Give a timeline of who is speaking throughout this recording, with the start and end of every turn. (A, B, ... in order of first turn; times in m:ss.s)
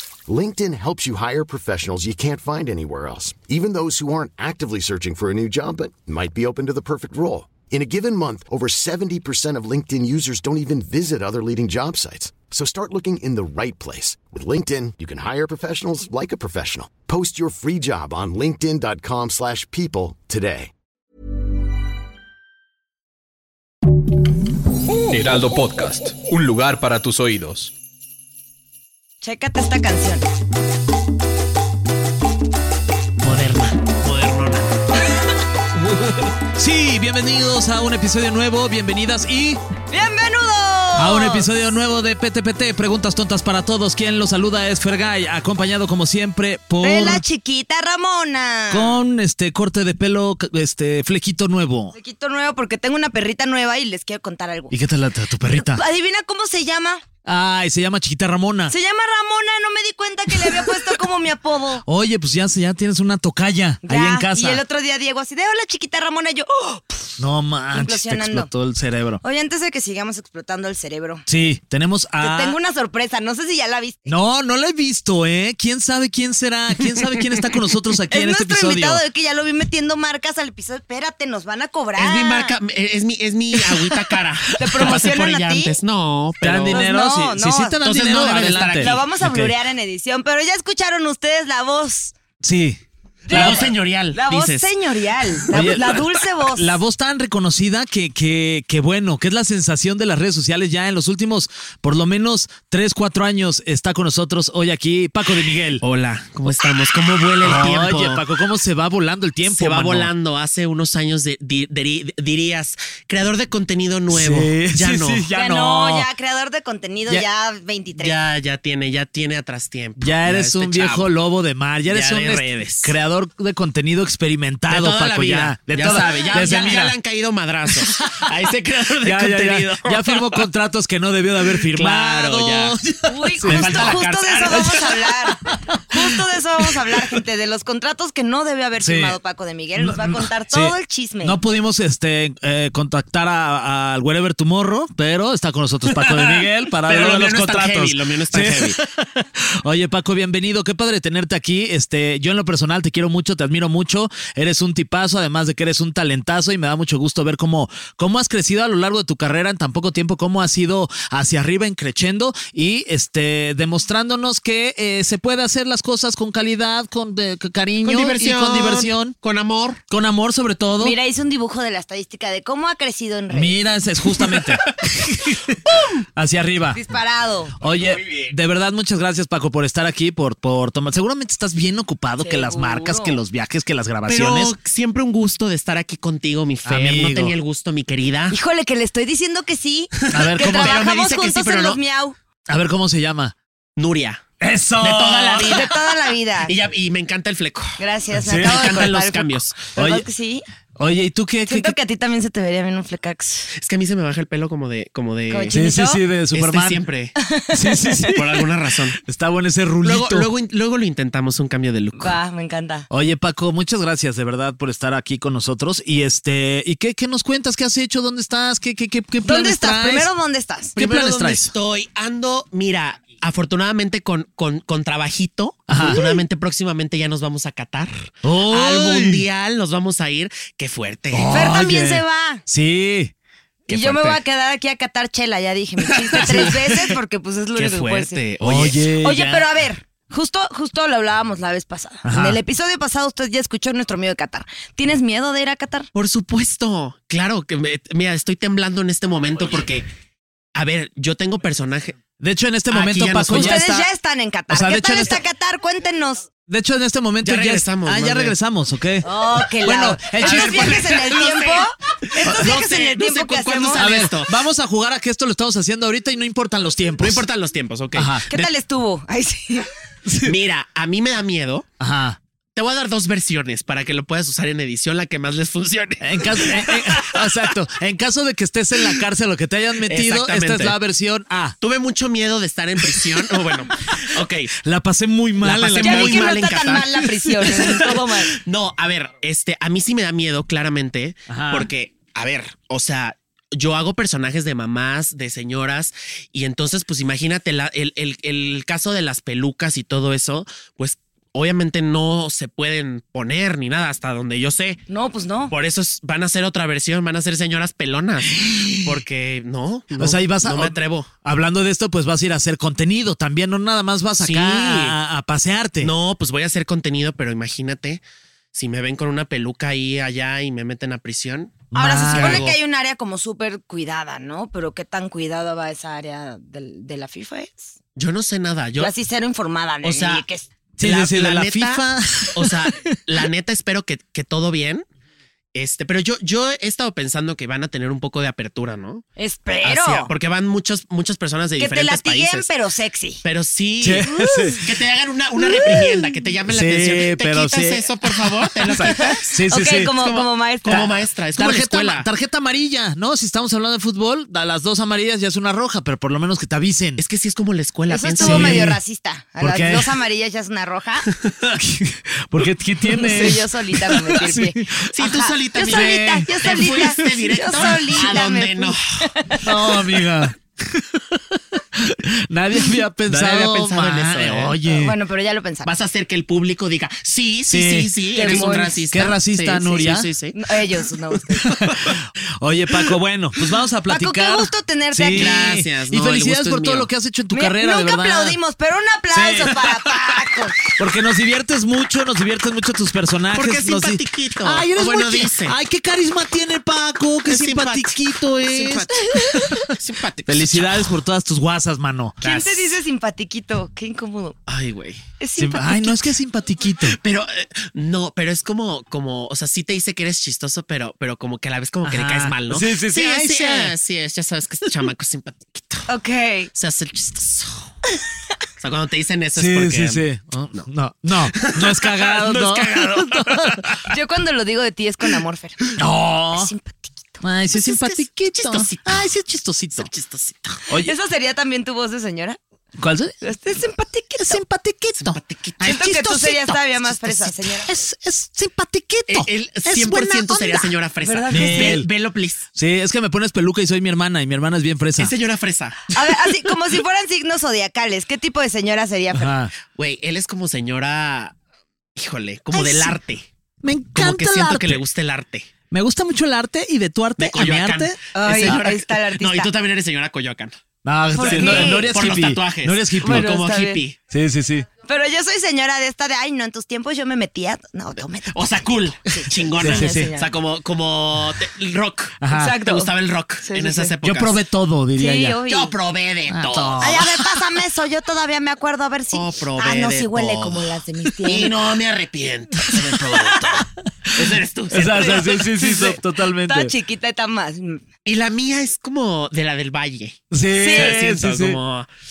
0:00.3-0:20.7 A
0:25.1-0:27.5 B
0:29.2-0:30.3 C
0:33.2-0:34.7 D
0:35.8-0:39.6 E
0:39.9-0:41.5 C
0:41.0-0:47.2 E
0:46.8-0:49.0 C
0:48.7-0:51.9 E
0:51.9-0:54.7 C
0:54.7-0:55.8 E
0:55.4-0:57.0 C
0:57.2-0:58.7 E
0:58.7-1:01.8 C
1:00.3-1:00.9 E
1:01.8-1:04.6 E
1:03.8-1:07.2 C
1:07.2-1:09.2 E
1:07.7-1:08.5 C
1:09.2-1:11.2 C
1:11.3-1:12.6 E
1:12.2-1:14.1 C
1:14.1-1:19.0 E
1:17.0-1:17.3 D
1:18.1-1:22.5 C
1:22.0-1:26.8 D
1:24.6-1:25.7 C
1:26.4-1:29.5 E
1:26.7-1:27.8 C
1:27.8-1:29.0 D
1:28.7-1:32.1 C
1:32.4-1:33.7 E
1:33.3-1:36.7 C
1:33.3-1:34.7 D
1:35.5-1:45.8 E
1:45.8-1:48.2 D
1:47.4-1:50.1 E
1:49.4-1:55.3 D
1:54.1-1:56.1 E
1:55.3-1:58.2 C
1:58.0-2:01.1 D
2:00.0-2:06.9 E
2:01.9-2:02.9 D
2:04.7-2:10.4 D
2:07.7-2:08.3 E
2:09.0-2:17.1 E
2:11.6-2:12.8 D
2:13.1-2:21.4 C
2:13.4-2:14.9 D
2:18.8-2:19.2 E
2:19.8-2:49.2 E
2:25.9-2:28.8 D
2:47.8-2:49.8 D
2:49.9-2:51.0 E
2:50.8-2:53.6 C
2:53.3-2:56.8 E
2:54.2-2:54.5 D
2:55.7-2:56.0 D
2:56.7-2:57.5 C
2:57.6-3:04.5 E
2:58.0-2:58.3 D
3:02.2-3:03.2 C
3:04.1-3:08.4 D
3:06.6-3:07.3 E
3:08.3-3:12.1 C
3:10.0-3:11.8 D
3:10.1-3:10.8 E
3:12.5-3:13.3 E
3:13.8-3:14.2 D
3:14.4-3:15.8 E
3:14.8-3:15.7 D
3:15.4-3:16.5 C
3:16.4-3:17.8 D
3:17.8-3:20.4 C
3:18.2-3:18.7 E
3:18.3-3:19.7 D
3:19.8-3:20.0 E
3:20.8-3:21.7 E
3:21.5-3:23.5 C
3:23.5-3:25.6 D
3:25.3-3:26.0 C
3:25.5-3:26.8 E
3:26.3-3:27.1 D
3:27.2-3:28.1 C
3:27.5-3:28.5 E
3:28.1-3:29.0 D
3:29.0-3:30.3 E
3:29.8-3:32.2 D
3:32.0-3:32.9 C
3:32.9-3:40.1 E
3:39.2-3:40.8 C
3:40.8-3:41.5 E
3:40.8-3:51.3 D
3:45.7-3:46.0 E
3:45.9-3:46.2 C
3:48.2-3:49.2 E
3:51.1-3:53.1 E
3:51.3-3:52.4 C
3:53.7-3:54.2 D
3:53.7-3:58.2 C
3:56.0-3:57.0 E
3:56.1-3:56.5 D
3:57.6-3:58.8 D
3:58.4-3:59.5 E
3:59.0-4:05.9 C
4:02.0-4:02.4 E
4:05.9-4:09.9 D
4:10.5-4:12.0 D
4:12.2-4:13.9 E
4:12.7-4:13.6 D
4:13.3-4:16.2 C
4:14.5-4:15.2 E
4:16.5-4:20.8 E
4:17.2-4:18.3 D
4:19.0-4:23.8 C
4:20.2-4:24.3 D
4:23.7-4:27.2 E
4:27.0-4:28.5 D
4:27.9-4:28.2 E
4:28.3-4:29.7 C
4:30.0-4:30.4 E
4:30.2-4:31.6 D
4:31.8-4:32.2 E
4:32.5-4:37.4 D
4:36.0-4:41.6 E
4:39.8-4:40.8 D
4:41.6-4:44.5 D
4:42.9-4:47.7 E
4:45.4-5:04.8 D
4:45.8-4:48.3 C
4:51.3-4:51.7 E
5:04.9-5:05.5 C
5:05.5-5:11.1 D
5:08.3-5:09.0 E
5:10.0-5:15.9 E
5:14.2-5:15.0 D
5:15.8-5:18.0 D
5:18.5-5:22.6 D
5:21.7-5:22.5 E
5:21.7-5:27.7 C
5:28.0-5:28.9 D
5:28.8-5:30.5 C
5:29.8-5:30.2 D
5:30.8-5:33.0 E
5:30.8-5:34.8 D
5:35.5-5:39.0 D
5:39.2-5:40.1 C
5:39.6-5:42.5 D
5:41.6-5:43.2 C
5:43.2-5:49.3 D
5:43.8-5:44.7 E
5:44.0-5:44.6 C
5:45.4-5:46.1 C
5:46.5-5:49.9 E
5:48.8-5:50.9 C
5:50.0-5:52.1 D
5:50.7-5:57.0 E
5:57.0-5:58.7 D
5:57.9-6:01.1 C
5:58.2-5:58.8 E
5:59.4-5:59.9 E
6:01.2-6:01.5 D
6:01.6-6:04.9 E
6:02.9-6:09.5 C
6:04.9-6:08.8 D
6:05.7-6:08.0 E
6:09.4-6:15.0 E
6:13.1-6:14.6 D
6:14.6-6:15.7 C
6:15.6-6:20.4 D
6:17.5-6:20.1 E
6:18.1-6:18.8 C
6:20.3-6:21.5 C
6:21.4-6:28.4 E
6:23.9-6:25.5 C
6:25.1-6:26.9 D
6:27.3-6:30.6 C
6:29.1-6:29.7 E
6:30.8-6:39.7 E
6:33.3-6:35.6 D
6:37.2-6:40.9 D
6:40.2-6:42.2 E
6:42.2-6:42.7 D
6:42.2-6:44.4 C
6:44.5-6:45.0 D
6:45.2-6:46.1 C
6:45.4-6:47.0 E
6:46.8-6:55.9 D
6:51.8-6:53.7 E
6:55.9-6:56.5 C
6:56.5-6:57.7 D
6:58.6-7:03.6 D
6:59.3-7:03.8 E
7:03.9-7:05.7 C
7:05.8-7:06.5 E
7:06.3-7:07.2 C
7:07.2-7:09.9 E
7:07.5-7:09.1 D
7:09.7-7:10.6 D
7:10.8-7:12.4 C
7:12.8-7:13.2 E
7:13.2-7:14.4 C
7:14.2-7:20.7 E
7:15.0-7:15.7 D
7:15.6-7:17.7 C
7:19.1-7:22.4 D
7:21.0-7:21.8 C
7:21.3-7:21.9 E
7:22.5-7:25.1 E
7:25.0-7:25.9 D
7:25.9-7:29.3 C
7:29.1-7:29.5 E
7:29.7-7:31.4 D
7:32.0-7:33.2 D
7:33.6-7:34.8 E
7:34.0-7:35.5 D
7:35.7-7:38.6 E
7:37.2-7:40.6 D
7:38.1-7:39.5 C
7:40.8-7:43.4 E
7:41.1-7:42.0 C
7:41.2-7:44.0 D
7:43.0-7:43.8 C
7:44.1-7:44.7 E
7:44.8-7:50.3 C
7:48.3-7:54.4 D
7:49.6-7:50.1 E
7:52.2-7:52.6 E
7:52.3-7:52.9 C
7:53.4-7:53.9 C
7:54.0-7:55.4 E
7:55.0-7:55.7 C
7:55.5-7:57.0 D
7:56.3-7:57.3 E
7:56.8-8:01.5 C
7:59.1-8:05.5 D
8:02.7-8:03.4 E
8:04.1-8:06.7 E
8:04.9-8:07.8 C
8:08.0-8:11.9 D
8:10.3-8:11.6 E
8:10.6-8:11.0 C